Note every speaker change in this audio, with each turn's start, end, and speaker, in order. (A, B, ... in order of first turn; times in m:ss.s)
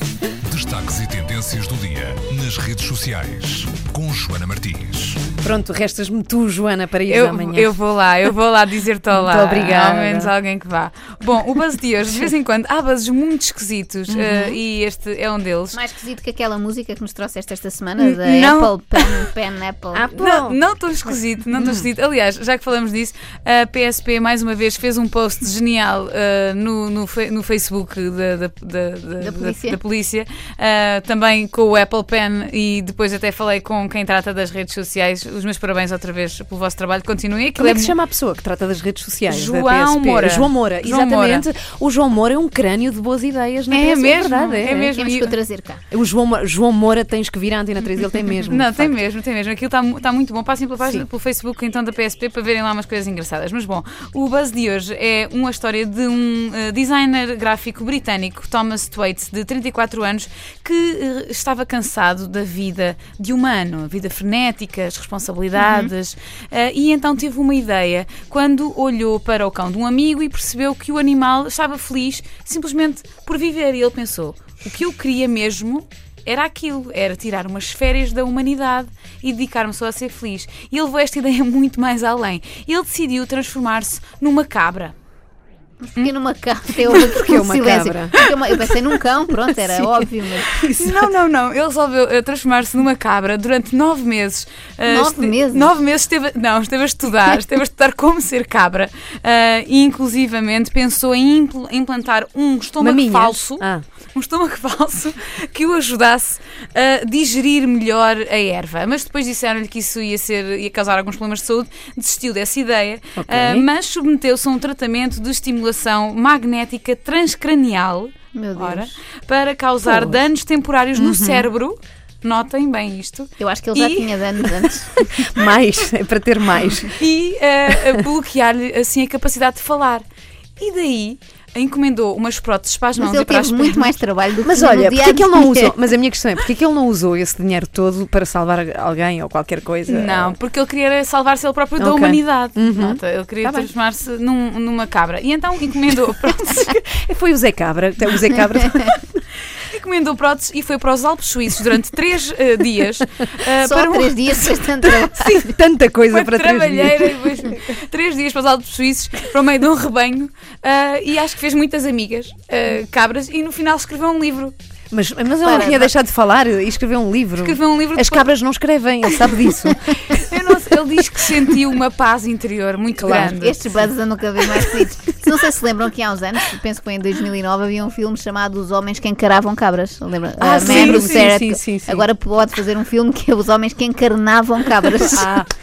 0:00.4-0:05.3 A
0:05.4-0:07.8 B
0:07.1-0:15.8 C
0:09.1-0:10.3 B
0:14.1-0:14.6 B
0:15.7-0:20.1 D
0:18.0-0:19.3 C
0:19.9-0:20.6 B
0:20.1-0:38.0 C
0:21.5-0:21.9 B
0:29.2-0:29.8 D
0:37.6-0:45.0 B
0:39.3-0:41.5 C
0:43.7-0:45.4 C
0:44.7-0:45.8 D
0:45.9-0:49.0 B
0:48.4-1:25.0 C
1:05.6-1:05.9 D
1:25.8-1:30.6 D
1:26.8-1:28.2 B
1:26.9-1:27.4 C
1:28.1-1:28.6 C
1:30.6-1:31.1 B
1:30.6-2:04.6 C
1:34.9-1:35.7 D
1:42.8-1:43.8 B
1:53.2-1:53.7 B
1:58.3-1:58.9 D
1:59.8-2:00.2 B
2:01.0-2:01.5 B
2:03.4-2:05.2 D
2:05.2-2:07.0 B
2:06.9-2:10.0 C
2:07.7-2:08.0 B
2:10.6-2:14.0 C
2:13.0-2:15.7 D
2:14.4-2:20.4 B
2:19.9-2:26.8 C
2:21.8-2:23.7 B
2:26.6-2:29.2 B
2:28.4-2:28.9 D
2:29.5-2:34.5 C
2:33.0-2:33.3 B
2:33.6-2:35.6 D
2:34.8-2:37.4 B
2:36.1-2:44.5 C
2:44.9-2:50.3 B
2:45.4-2:45.9 D
2:47.4-2:48.3 C
2:49.1-2:53.8 C
2:53.0-2:53.4 B
2:53.3-3:05.4 D
3:00.4-3:02.1 B
3:00.6-3:01.3 C
3:05.0-3:05.5 B